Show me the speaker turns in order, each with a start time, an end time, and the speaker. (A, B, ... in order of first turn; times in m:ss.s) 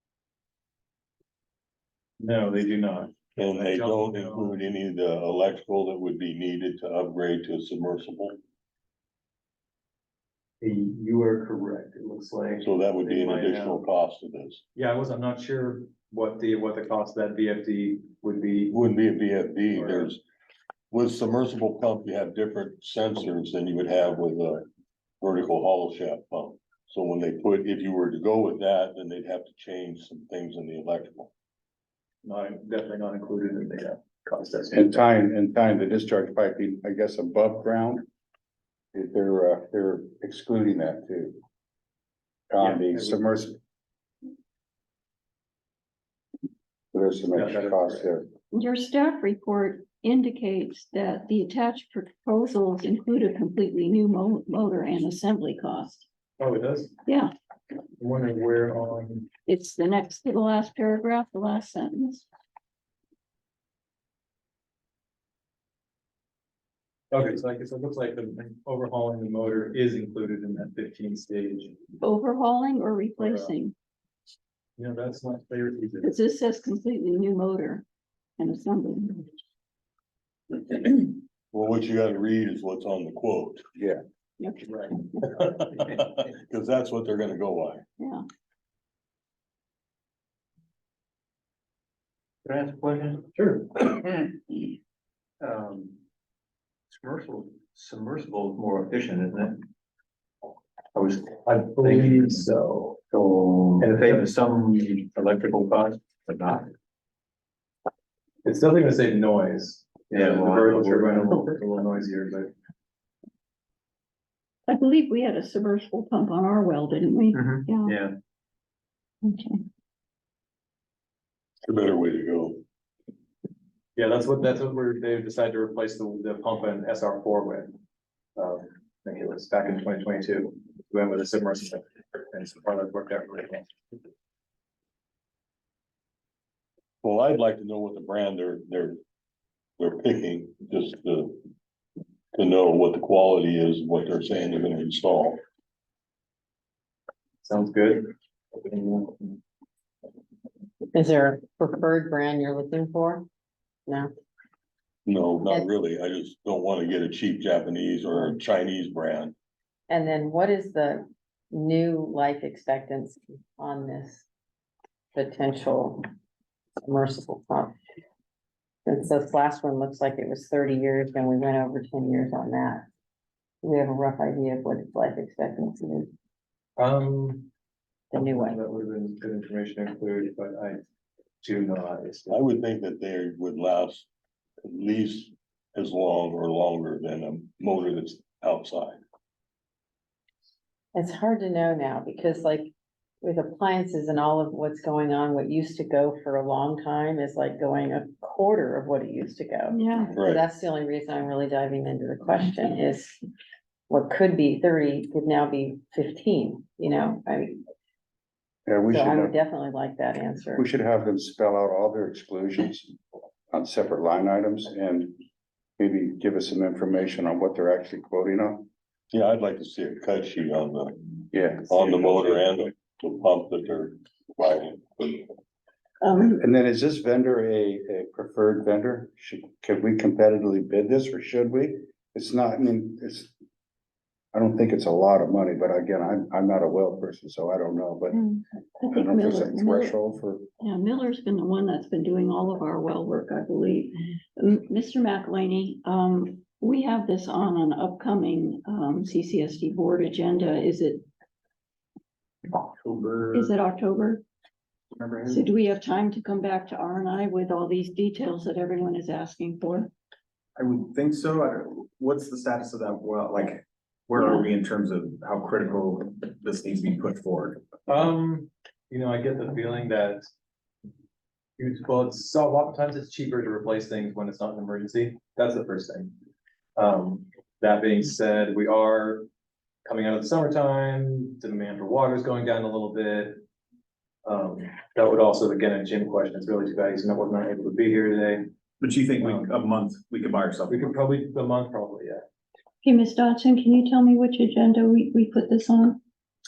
0:02.2-0:04.6 A
0:03.4-0:08.4 B
0:10.6-0:13.8 A
0:12.6-0:14.6 B
0:14.8-0:18.7 A
0:18.7-0:20.2 B
0:19.7-0:20.1 A
0:20.9-0:24.7 B
0:25.2-0:31.3 B
0:32.2-0:34.9 A
0:34.7-0:38.0 C
0:38.9-0:41.4 C
0:42.5-0:43.6 C
0:42.6-0:43.2 A
0:46.9-0:48.3 C
0:47.3-0:48.1 A
0:48.5-0:56.0 D
0:56.4-0:56.9 A
0:57.0-0:57.3 D
0:58.0-0:59.3 A
0:59.4-1:02.2 D
1:07.1-1:11.8 A
1:12.0-1:13.7 D
1:13.2-1:13.5 A
1:14.8-1:16.1 A
1:16.0-1:17.8 D
1:18.4-1:19.2 D
1:20.8-1:23.6 B
1:24.4-1:25.2 D
1:24.7-1:25.0 A
1:25.4-1:27.8 B
1:32.5-1:33.2 E
1:33.4-1:33.8 A
1:35.4-1:36.0 E
1:36.9-1:39.6 E
1:40.9-1:42.4 E
1:41.4-1:43.0 A
1:43.1-1:46.7 E
1:43.8-1:44.2 A
1:48.4-1:52.5 A
1:50.1-1:51.6 E
1:54.7-1:58.0 D
1:57.8-1:58.1 E
1:59.2-1:59.6 D
2:01.6-2:02.6 B
2:04.0-2:07.7 A
2:08.4-2:14.0 A
2:17.0-2:19.0 B
2:19.8-2:21.4 B
2:22.3-2:25.4 B
2:27.4-2:29.4 A
2:30.9-2:33.3 F
2:35.0-2:39.3 B
2:39.9-2:44.2 F
2:45.1-2:46.0 F
2:46.8-2:47.7 F
2:48.8-2:52.8 F
2:53.6-2:56.1 F
2:56.8-2:57.5 A
2:58.1-2:58.6 F
2:58.1-3:00.8 A
3:01.4-3:02.4 A
3:02.3-3:04.1 B
3:04.6-3:09.0 B
3:10.9-3:12.7 F
3:13.2-3:23.2 F
3:19.7-3:20.2 D
3:20.1-3:20.4 B
3:23.9-3:27.6 F
3:28.7-3:29.3 C
3:28.9-3:30.6 F
3:30.5-3:32.9 C
3:33.5-3:35.2 C
3:35.8-3:38.7 C
3:39.1-3:45.3 B
3:41.3-3:42.6 C
3:46.0-3:46.4 D
3:46.2-3:53.3 C
3:54.3-3:58.2 C
3:58.3-4:00.0 D
3:58.9-4:00.4 C
4:00.6-4:11.0 D
4:12.8-4:13.5 G
4:13.3-4:14.2 D
4:14.9-4:15.5 G
4:15.3-4:19.9 D
4:20.6-4:27.6 G
4:27.9-4:30.3 A
4:31.6-4:36.1 A
4:36.8-4:39.2 A
4:39.8-4:43.4 A
4:44.2-4:48.4 A
4:48.8-4:51.0 G
4:49.2-4:49.5 A
4:50.7-4:52.2 A
4:52.8-4:56.0 D